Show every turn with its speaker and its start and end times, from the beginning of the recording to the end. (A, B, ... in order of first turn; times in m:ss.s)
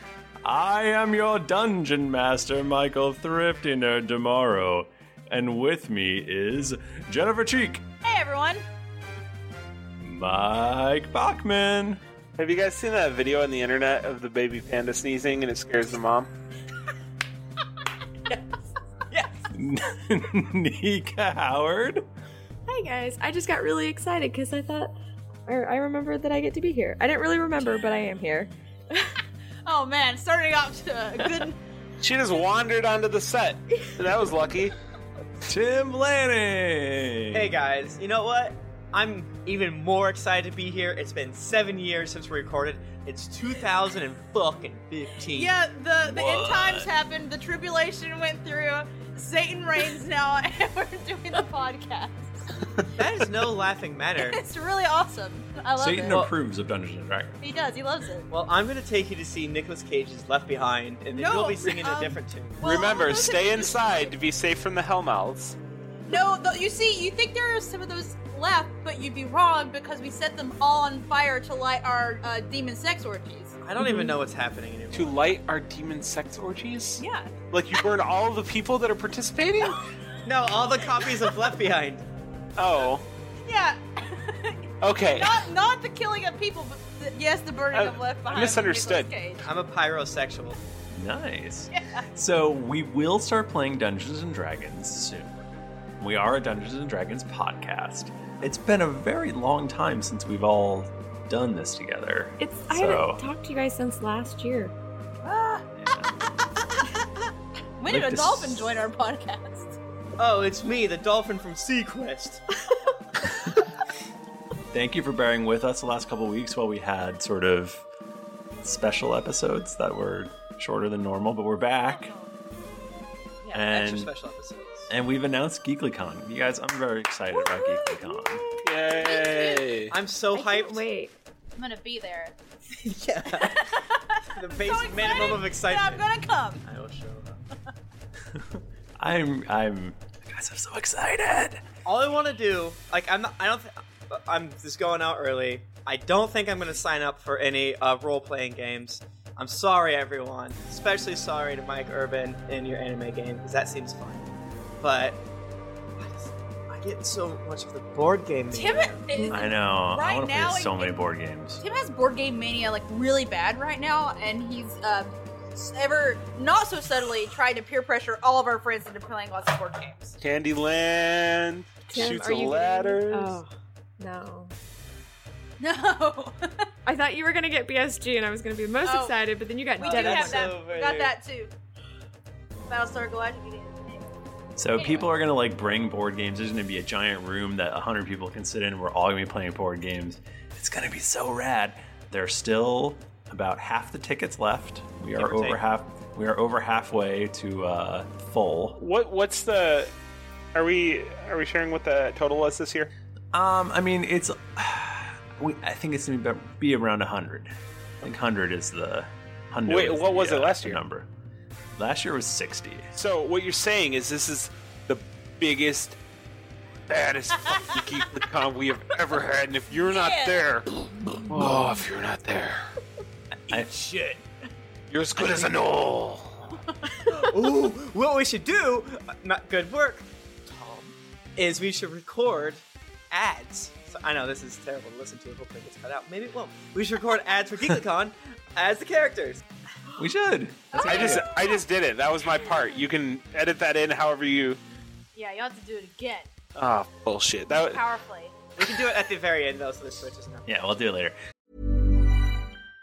0:00.4-0:07.8 A
0:08.0-0:08.6 B
0:10.0-0:12.0 A
0:12.4-0:16.3 C
0:19.1-0:19.4 D
0:19.5-0:22.0 A
0:22.7-0:24.9 E
0:25.4-0:29.1 E
0:29.6-0:31.6 B
0:32.0-0:34.7 C
0:35.4-0:37.5 A
0:37.3-0:45.5 D
0:45.3-0:52.4 B
0:46.0-0:46.9 A
0:52.9-0:54.4 D
0:54.2-0:56.3 B
0:55.8-0:57.4 A
0:57.4-0:58.3 B
0:58.3-1:02.6 D
1:01.1-1:04.1 B
1:02.6-1:05.6 C
1:06.1-1:13.6 B
1:13.6-1:15.4 D
1:13.8-1:14.1 E
1:14.9-1:19.8 C
1:17.0-1:17.3 B
1:20.2-1:22.0 D
1:22.6-1:23.0 C
1:23.5-1:29.5 B
1:24.8-1:25.4 C
1:27.7-1:29.1 C
1:29.4-1:30.6 D
1:30.9-1:35.3 A
1:31.7-1:32.0 B
1:36.0-1:43.2 A
1:42.4-1:44.7 E
1:45.2-1:45.6 B
1:45.8-1:46.1 A
1:47.8-1:49.8 B
1:47.8-1:48.8 A
1:50.2-1:52.4 D
1:54.7-1:57.8 A
1:58.6-2:02.1 A
2:01.9-2:02.6 B
2:03.4-2:04.9 D
2:03.5-2:04.1 A
2:04.9-2:08.4 A
2:07.3-2:09.8 B
2:08.6-2:09.9 C
2:09.9-2:10.9 D
2:10.3-2:11.1 E
2:11.6-2:12.3 B
2:12.8-2:13.6 D
2:13.4-2:16.6 B
2:14.3-2:16.1 D
2:16.6-2:17.4 D
2:19.0-2:21.6 A
2:21.8-2:34.3 D
2:34.8-2:35.2 D
2:36.0-2:39.0 D
2:38.5-2:41.0 B
2:39.1-2:39.5 E
2:39.3-2:41.6 A
2:41.6-2:50.1 B
2:50.2-2:53.4 C
2:51.9-2:54.5 E
2:55.6-2:56.6 B
2:56.8-3:00.6 E
2:58.8-2:59.2 B
2:59.8-3:01.5 B
2:59.8-3:01.1 D
3:02.7-3:04.2 B
3:04.6-3:18.8 A
3:04.7-3:05.1 B
3:15.2-3:15.6 D
3:18.8-3:19.9 C
3:20.5-3:22.9 C
3:23.3-3:31.1 A
3:29.6-3:30.8 C
3:31.8-3:32.9 A
3:33.0-3:36.0 C
3:36.9-3:42.7 C
3:39.9-3:40.4 B
3:43.5-3:44.2 D
3:43.5-3:43.8 A
3:44.9-3:46.5 C
3:45.2-3:45.5 D
3:47.1-3:59.4 D
4:00.0-4:01.4 A
4:00.7-4:01.6 B
4:00.8-4:04.6 C
4:05.1-4:06.3 B
4:06.6-4:07.8 C
4:07.5-4:08.3 B
4:08.6-4:10.5 D
4:10.5-4:11.2 A